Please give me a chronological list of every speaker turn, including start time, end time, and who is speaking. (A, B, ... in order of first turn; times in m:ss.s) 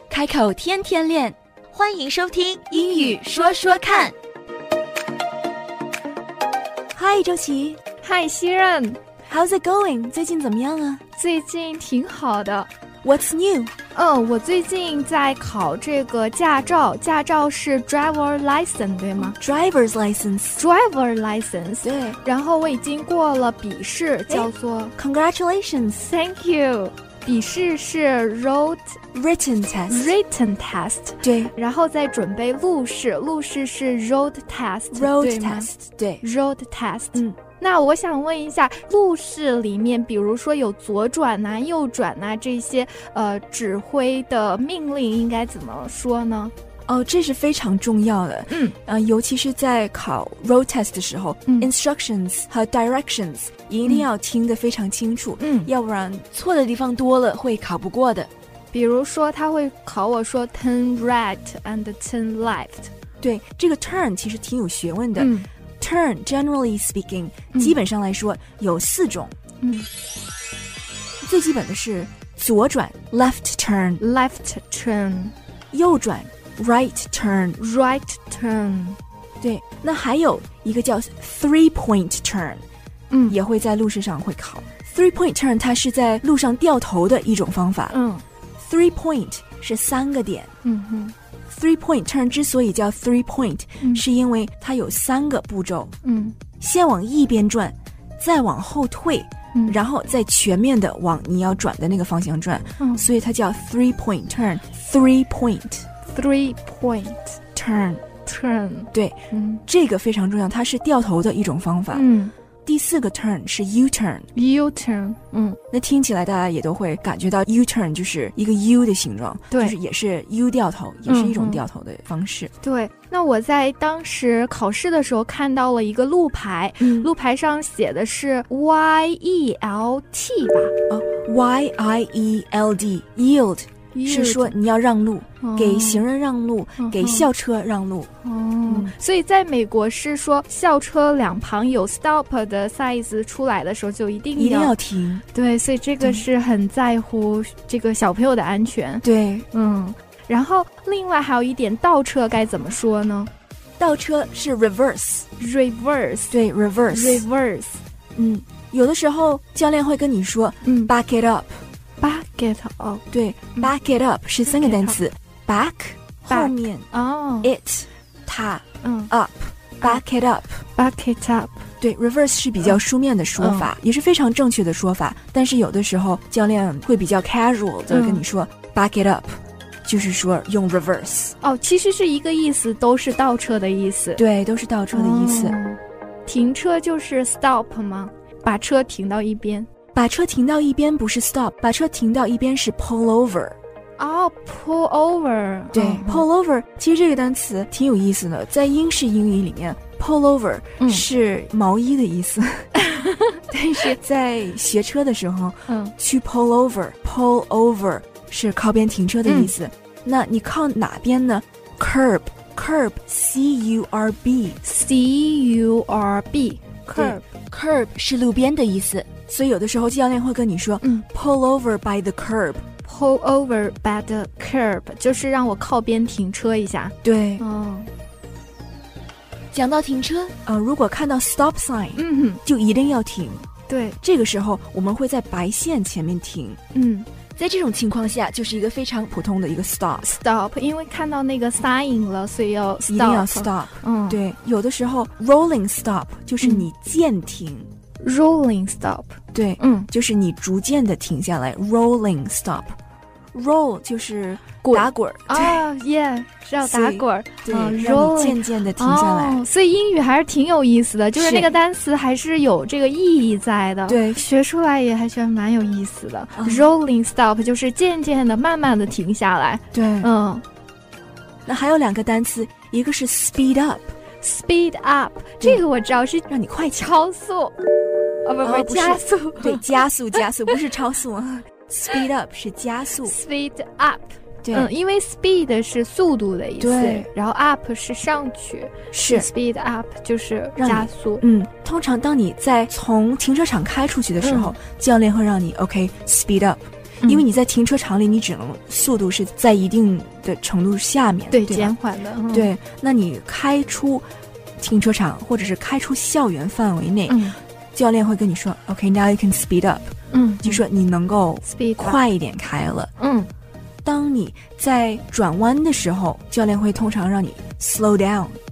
0:00.1-0:01.4 A
0:01.7-0:04.1 B
0:02.7-0:04.1 A
0:06.9-0:07.8 A
0:08.0-0:09.0 C
0:09.3-0:11.0 A
0:11.2-0:12.7 C
0:13.0-0:13.7 A
0:13.9-0:19.4 C
0:19.2-0:20.6 A
0:20.6-0:24.9 C
0:21.8-0:22.2 A
0:24.3-0:26.1 A
0:26.0-0:29.0 C
0:29.1-0:30.1 A
0:29.9-0:35.7 C
0:31.2-0:31.5 A
0:34.9-0:36.2 A
0:36.2-0:46.5 C
0:46.8-0:58.3 A
0:48.5-0:48.8 C
0:55.4-0:55.7 C
0:58.7-1:02.9 C
1:03.2-1:09.3 A
1:05.2-1:05.5 C
1:07.5-1:07.8 C
1:09.6-1:09.9 C
1:11.2-1:14.0 A
1:14.0-1:15.3 C
1:15.7-1:17.6 A
1:17.6-1:19.0 C
1:19.4-1:22.6 A
1:23.1-1:23.4 C
1:23.3-1:27.9 A
1:27.9-1:28.2 C
1:28.6-1:30.5 A
1:30.6-1:31.1 C
1:31.5-1:35.9 A
1:36.0-1:36.4 C
1:36.6-1:45.8 A
1:39.5-1:39.8 C
1:42.8-1:43.0 C
1:46.0-1:47.4 C
1:47.5-1:48.0 A
1:48.2-1:49.6 C
1:48.9-1:52.0 A
1:51.9-1:52.3 C
1:52.6-1:54.3 A
1:54.3-1:55.6 C
1:55.7-2:02.5 A
1:59.5-1:59.8 C
2:01.0-2:01.6 C
2:02.6-2:10.7 C
2:06.8-2:07.1 A
2:10.9-2:18.1 A
2:13.9-2:14.6 C
2:15.4-2:16.0 C
2:16.8-2:17.3 C
2:18.2-2:24.8 C
2:18.7-2:18.9 A
2:24.3-2:25.2 A
2:25.3-2:33.3 C
2:29.0-2:29.5 A
2:33.8-2:35.3 A
2:35.4-2:36.4 C
2:36.3-2:37.2 A
2:36.9-2:37.8 C
2:38.1-2:41.6 A
2:40.6-2:40.9 C
2:42.0-2:43.0 C
2:43.1-2:46.9 A
2:44.5-2:45.0 C
2:46.3-2:47.5 C
2:47.4-2:50.6 A
2:48.8-2:49.1 C
2:50.8-2:51.6 C
2:51.8-3:01.3 A
2:53.4-2:53.7 C
2:57.9-2:58.2 C
3:01.4-3:04.2 C
3:04.2-3:05.6 A
3:04.9-3:09.7 C
3:09.9-3:13.6 A
3:14.0-3:16.2 C
3:15.7-3:22.7 A
3:20.8-3:21.0 C
3:22.7-3:23.9 C
3:23.5-3:34.6 A
3:25.7-3:25.9 C
3:29.2-3:29.5 C
3:34.6-3:37.2 C
3:36.9-3:42.6 A
3:42.8-3:47.9 C
3:47.0-3:47.4 A
3:49.5-3:53.4 A
3:52.0-3:52.4 C
3:53.7-3:54.0 C
3:54.0-3:56.6 A
3:56.7-3:57.1 C
3:57.4-4:00.2 A
4:00.1-4:04.2 C
4:02.8-4:07.7 A
4:06.4-4:06.7 C
4:08.0-4:09.9 C
4:09.3-4:12.8 A
4:13.3-4:15.7 A
4:14.6-4:30.4 C
4:16.6-4:19.4 A
4:21.1-4:21.5 A
4:23.9-4:24.2 A
4:26.3-4:26.7 A
4:29.7-4:30.1 A
4:31.4-4:33.9 A
4:34.2-4:36.2 C
4:36.3-4:36.9 A
4:36.8-4:37.5 C
4:38.2-4:39.7 C
4:38.4-4:43.2 A
4:43.0-4:51.2 C
4:44.4-4:44.7 A
4:46.6-4:47.1 A
4:48.9-4:49.3 A
4:50.6-5:01.7 A
4:54.2-4:54.6 C
5:01.3-5:02.5 C
5:02.3-5:04.0 A
5:04.6-5:12.9 A
5:07.1-5:07.4 C
5:10.1-5:10.6 C
5:11.4-5:12.0 C
5:13.0-5:13.3 C
5:13.8-5:18.4 A